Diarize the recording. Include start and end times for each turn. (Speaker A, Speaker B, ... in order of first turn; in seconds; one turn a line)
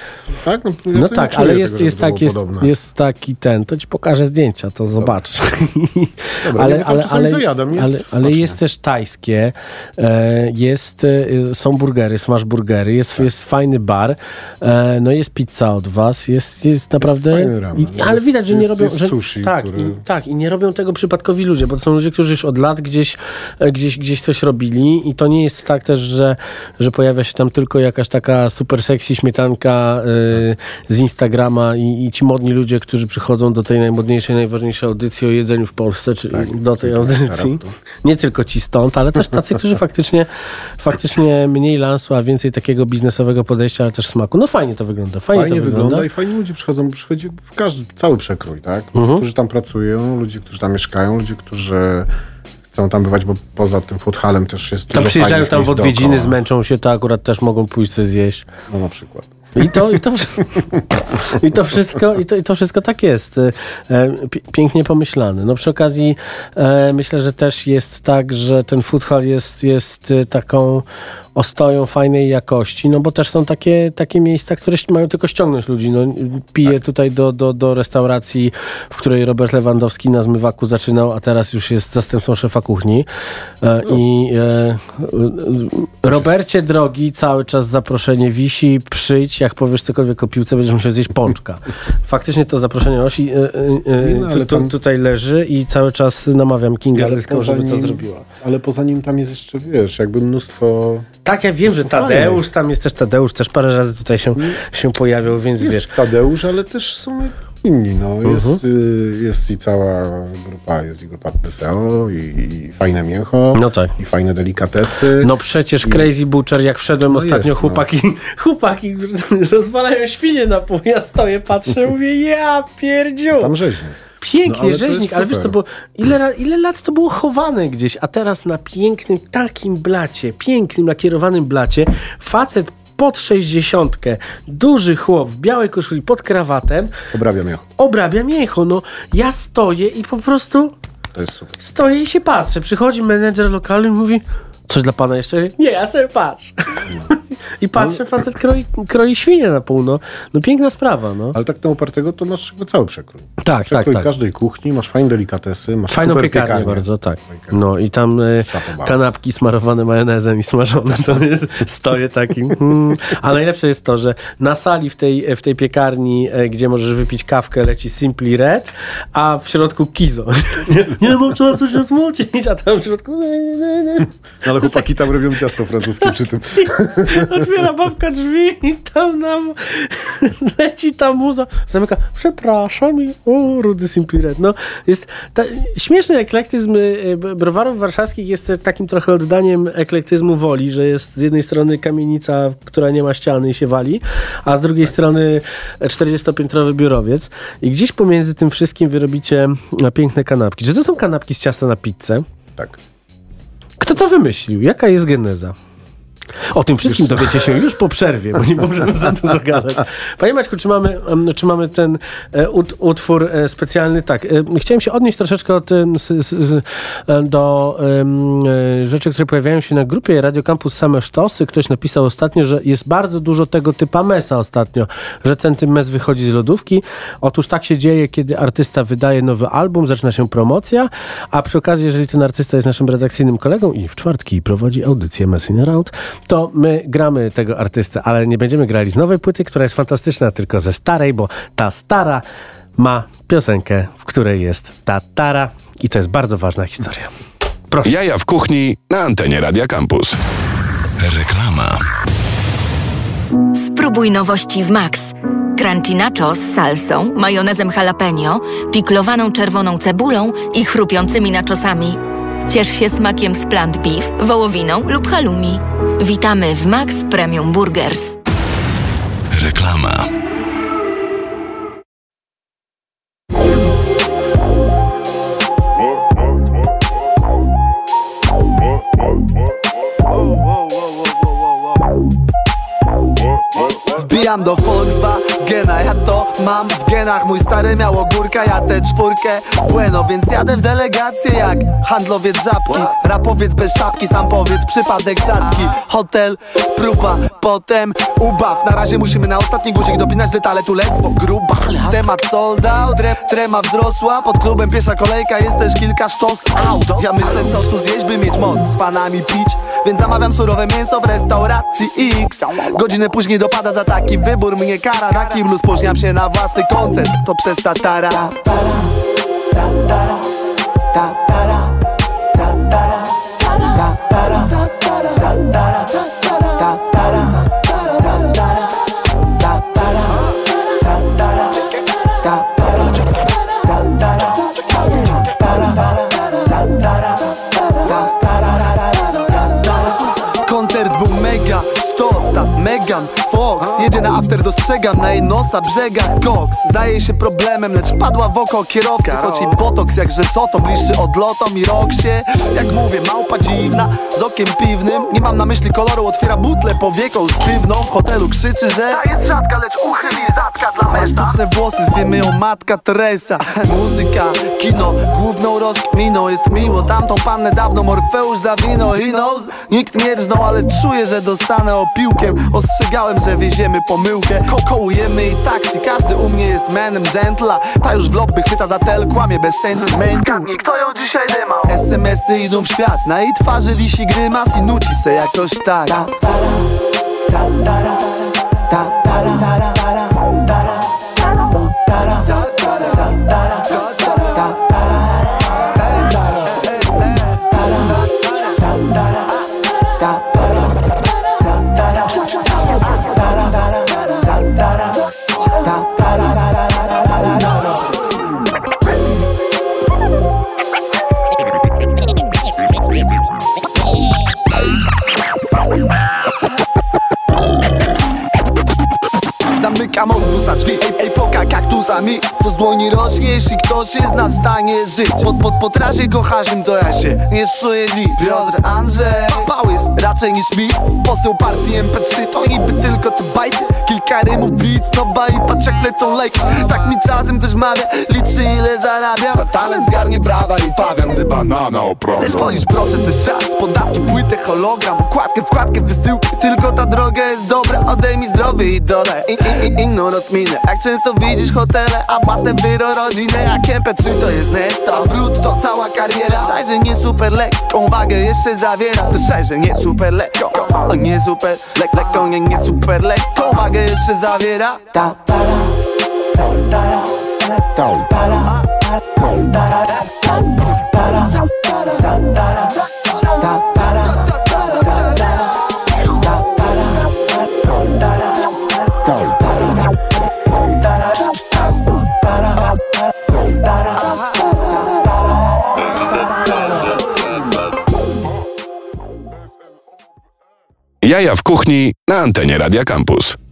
Speaker A: 0.4-2.7
Speaker B: 0.9-46.1
Speaker A: 6.4-8.6
Speaker A: 17.0-20.0
Speaker A: 36.3-37.8
Speaker A: 45.3-52.1
Speaker B: 49.0-49.2
Speaker A: 52.7-56.4
Speaker B: 54.9-58.5
Speaker A: 58.7-59.9
Speaker B: 59.5-70.8
Speaker B: 71.3-83.1
Speaker B: 83.6-98.2
Speaker A: 94.0-94.7
Speaker A: 96.9-101.1
Speaker B: 101.2-105.9
Speaker A: 101.7-102.4
Speaker A: 104.4-104.6
Speaker A: 105.6-116.1
Speaker B: 108.2-108.6
Speaker B: 113.5-113.9
Speaker B: 115.2-123.5
Speaker A: 117.1-117.9
Speaker A: 123.3-125.6
Speaker B: 124.2-136.9
Speaker A: 137.1-137.7
Speaker B: 137.8-140.8
Speaker A: 141.1-141.6
Speaker B: 141.6-151.4
Speaker A: 151.3-157.6
Speaker B: 153.4-154.1
Speaker B: 155.9-174.8
Speaker A: 158.4-159.0
Speaker A: 174.4-177.5
Speaker B: 176.6-202.2
Speaker B: 203.8-205.6
Speaker B: 206.5-242.2
Speaker A: 206.9-207.6
Speaker B: 242.8-247.1
Speaker C: 247.8-250.2
Speaker C: 251.0-251.9
Speaker D: 253.5-268.2
Speaker C: 269.3-270.1
Speaker E: 283.9-318.4
Speaker E: 339.6-386.1
Speaker E: 392.2-394.5
Speaker E: 396.0-397.2
Speaker E: 419.6-441.5
Speaker E: 442.1-465.1
Speaker E: 474.1-475.1
Speaker C: 491.0-493.4